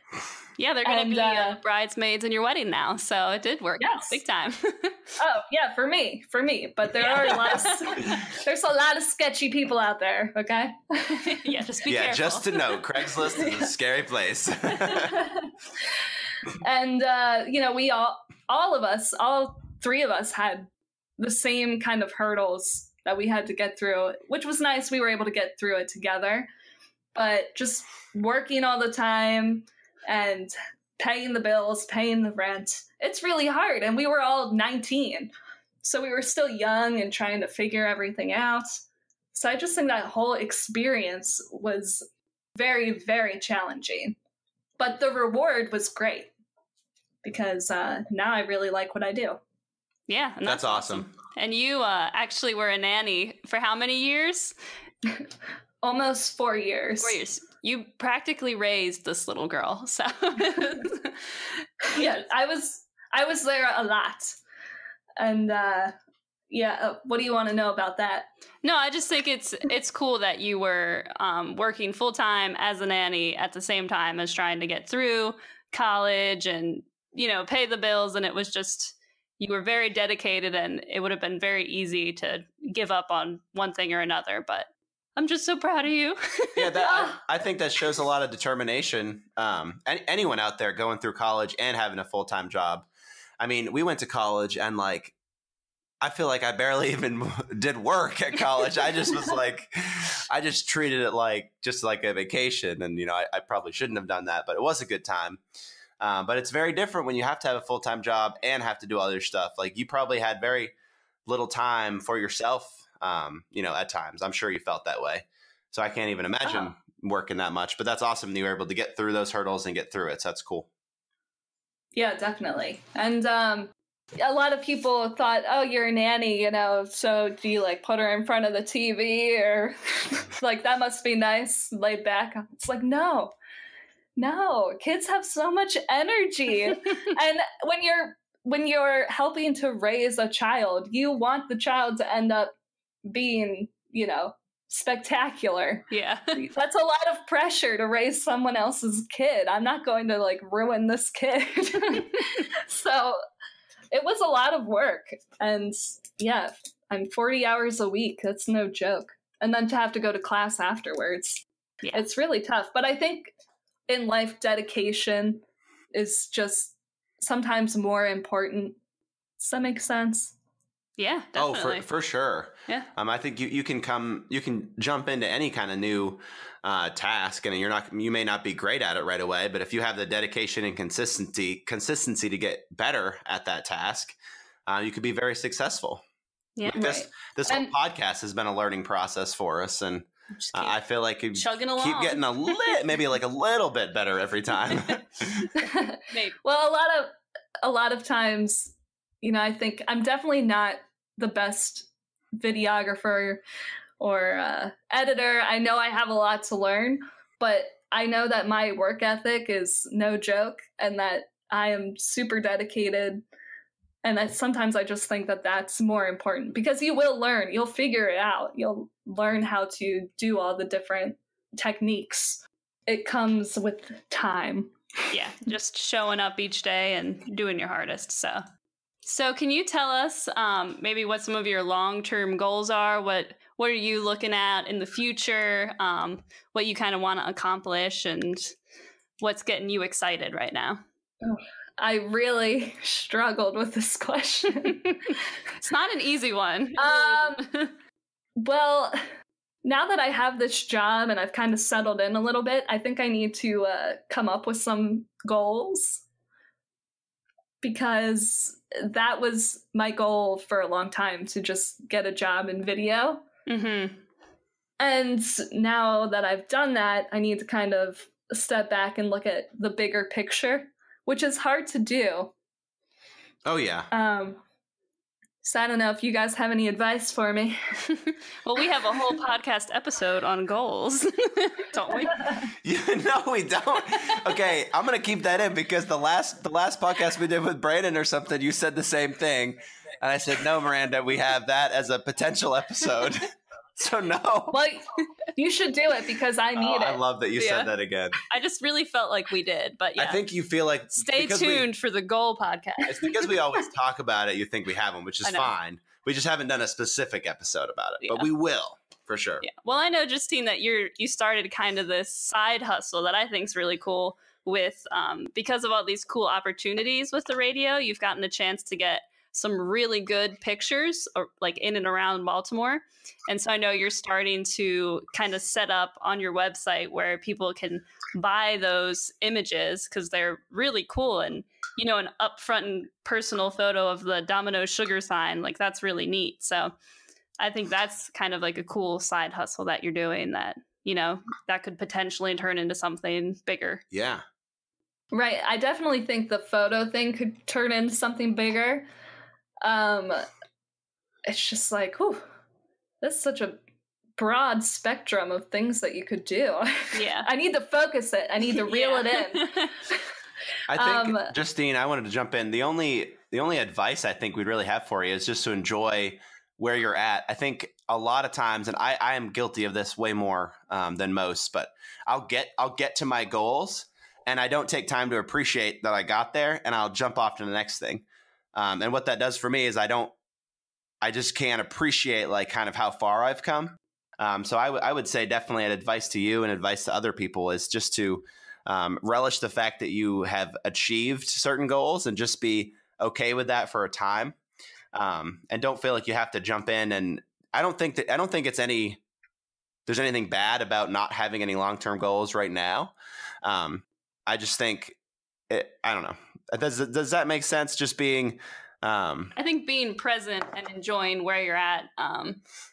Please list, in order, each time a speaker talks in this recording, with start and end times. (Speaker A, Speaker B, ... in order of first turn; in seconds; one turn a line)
Speaker A: 0.6-5.2
Speaker B: 0.8-1.6
Speaker B: 3.8-4.2
Speaker B: 5.2-11.4
Speaker A: 7.0-8.2
Speaker A: 11.2-12.6
Speaker C: 11.8-15.2
Speaker B: 13.3-13.7
Speaker B: 15.1-15.4
Speaker B: 16.6-26.5
Speaker B: 27.1-44.1
Speaker B: 44.8-46.3
Speaker B: 47.2-49.4
Speaker A: 50.1-54.5
Speaker C: 50.4-51.0
Speaker B: 55.8-57.2
Speaker A: 57.0-62.1
Speaker B: 61.9-64.4
Speaker B: 65.2-65.9
Speaker B: 66.5-68.3
Speaker A: 68.6-86.8
Speaker C: 86.5-92.9
Speaker B: 86.8-87.2
Speaker C: 93.4-95.1
Speaker C: 96.0-105.4
Speaker C: 106.0-110.7
Speaker C: 111.2-120.7
Speaker B: 122.0-133.3
Speaker B: 134.2-142.5
Speaker B: 143.1-153.2
Speaker A: 145.9-146.4
Speaker B: 153.9-163.3
Speaker B: 163.9-168.8
Speaker B: 169.4-170.3
Speaker A: 171.0-171.8
Speaker C: 171.3-184.2
Speaker C: 184.7-186.0
Speaker A: 186.6-186.8
Speaker C: 186.6-195.4
Speaker B: 186.7-187.7
Speaker A: 190.4-190.8
Speaker A: 191.3-192.7
Speaker B: 195.6-203.4
Speaker A: 196.1-196.3
Speaker B: 204.0-213.2
Speaker B: 214.0-224.7
Speaker A: 225.1-228.4
Speaker A: 229.0-238.5
Speaker A: 239.2-240.8
Speaker B: 241.2-244.9
Speaker A: 244.8-247.7
Speaker B: 246.8-247.4
Speaker B: 248.4-249.0
Speaker B: 249.6-256.0
Speaker B: 257.6-263.2
Speaker A: 263.5-264.0
Speaker B: 264.8-272.3
Speaker C: 273.4-273.9
Speaker B: 273.9-274.4
Speaker B: 275.4-277.6
Speaker A: 277.9-282.3
Speaker C: 282.6-294.6
Speaker B: 294.5-297.0
Speaker C: 296.6-298.2
Speaker A: 297.4-297.7
Speaker A: 298.3-300.2
Speaker C: 300.0-301.6
Speaker A: 301.0-303.3
Speaker C: 302.9-309.4
Speaker A: 305.2-305.5
Speaker A: 308.0-308.3
Speaker A: 309.4-336.7
Speaker A: 337.4-343.8
Speaker C: 343.9-344.2
Speaker B: 345.1-348.9
Speaker B: 349.6-350.3
Speaker B: 351.3-352.2
Speaker B: 353.0-353.6
Speaker B: 354.2-359.6
Speaker A: 356.9-357.3
Speaker A: 358.5-359.7
Speaker C: 360.7-380.1
Speaker B: 360.7-361.3
Speaker C: 381.0-394.4
Speaker C: 394.9-399.0
Speaker C: 399.9-404.9
Speaker C: 405.5-409.3
Speaker A: 409.4-412.4